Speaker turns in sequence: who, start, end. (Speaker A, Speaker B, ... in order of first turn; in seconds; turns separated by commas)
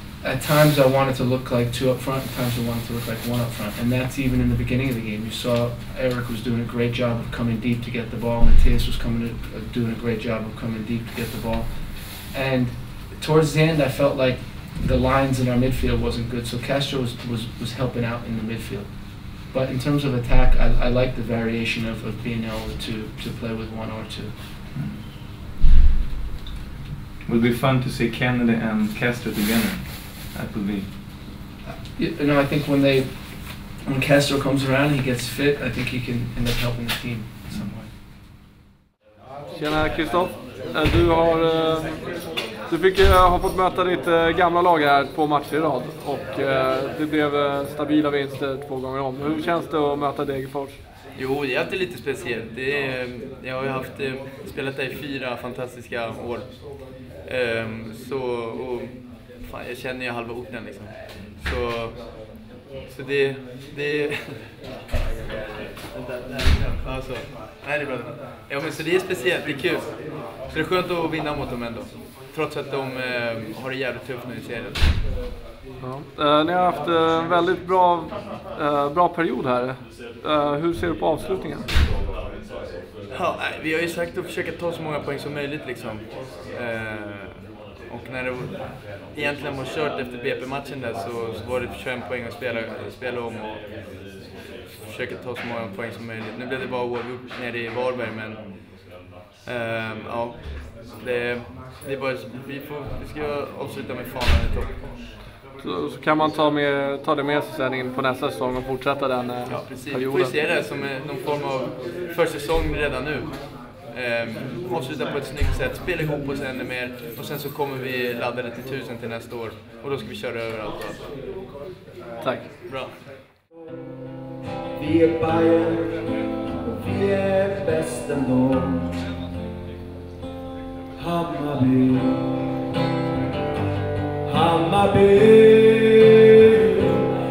Speaker A: 0.2-24.4, Speaker B: 24.7-25.0, Speaker B: 27.2-31.1, Speaker A: 31.9-37.7, Speaker B: 37.5-37.9, Speaker C: 39.5-42.1, Speaker C: 42.6-50.8, Speaker D: 51.1-64.4, Speaker D: 65.9-74.8, Speaker C: 75.8-81.7, Speaker D: 83.1-93.6, Speaker D: 94.7-98.9, Speaker D: 99.4-104.8, Speaker C: 105.6-110.3, Speaker D: 109.4-121.0, Speaker C: 122.2-122.5, Speaker D: 122.7-123.0, Speaker E: 124.8-126.0, Speaker E: 126.6-128.9, Speaker E: 131.0-132.2, Speaker E: 134.2-137.0